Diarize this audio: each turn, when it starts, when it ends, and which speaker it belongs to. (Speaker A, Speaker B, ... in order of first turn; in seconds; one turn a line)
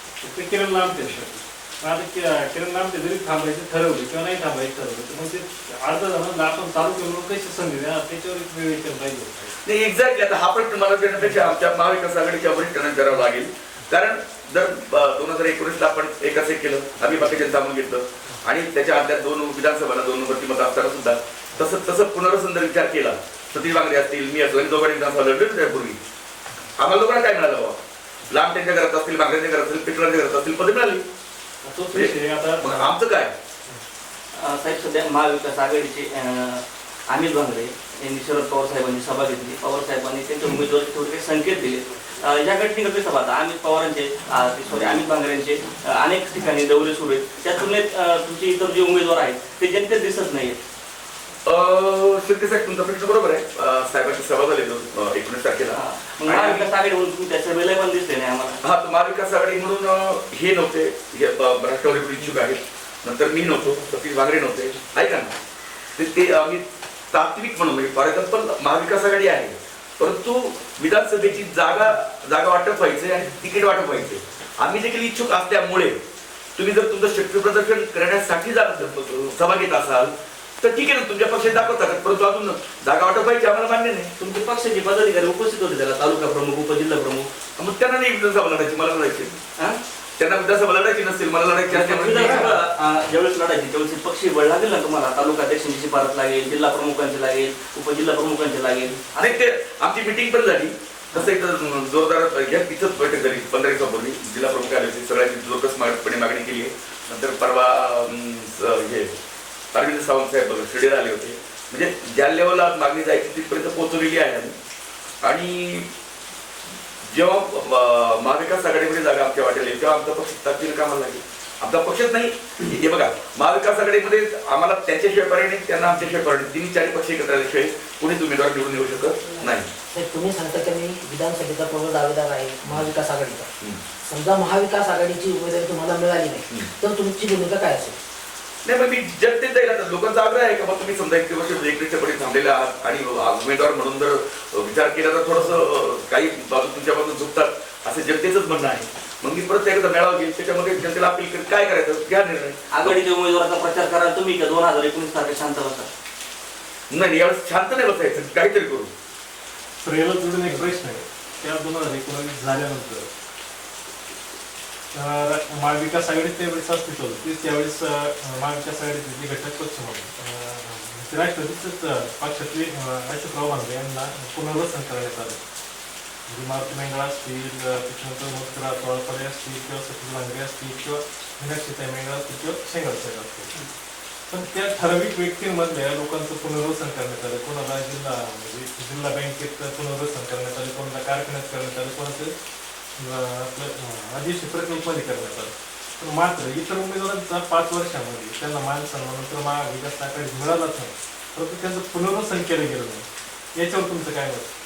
Speaker A: 0.2-9.6
Speaker B: 9.6-26.0
Speaker B: 26.8-27.8
Speaker B: 28.3-31.0
Speaker A: 31.6-33.0
Speaker B: 31.9-33.3
Speaker C: 34.4-50.6
Speaker B: 51.5-56.7
Speaker C: 55.7-58.6
Speaker B: 58.6-65.3
Speaker B: 66.0-76.0
Speaker B: 76.6-84.1
Speaker C: 84.2-87.3
Speaker B: 87.6-89.3
Speaker B: 90.2-92.6
Speaker C: 91.7-99.4
Speaker B: 99.2-109.1
Speaker B: 109.7-114.6
Speaker B: 115.2-115.9
Speaker B: 117.1-129.7
Speaker D: 129.3-133.5
Speaker D: 134.1-138.0
Speaker B: 138.7-153.0
Speaker C: 152.7-155.9
Speaker B: 156.9-158.9
Speaker A: 159.8-163.1
Speaker A: 164.9-175.4
Speaker A: 176.3-183.5
Speaker A: 184.3-192.3
Speaker A: 193.0-204.5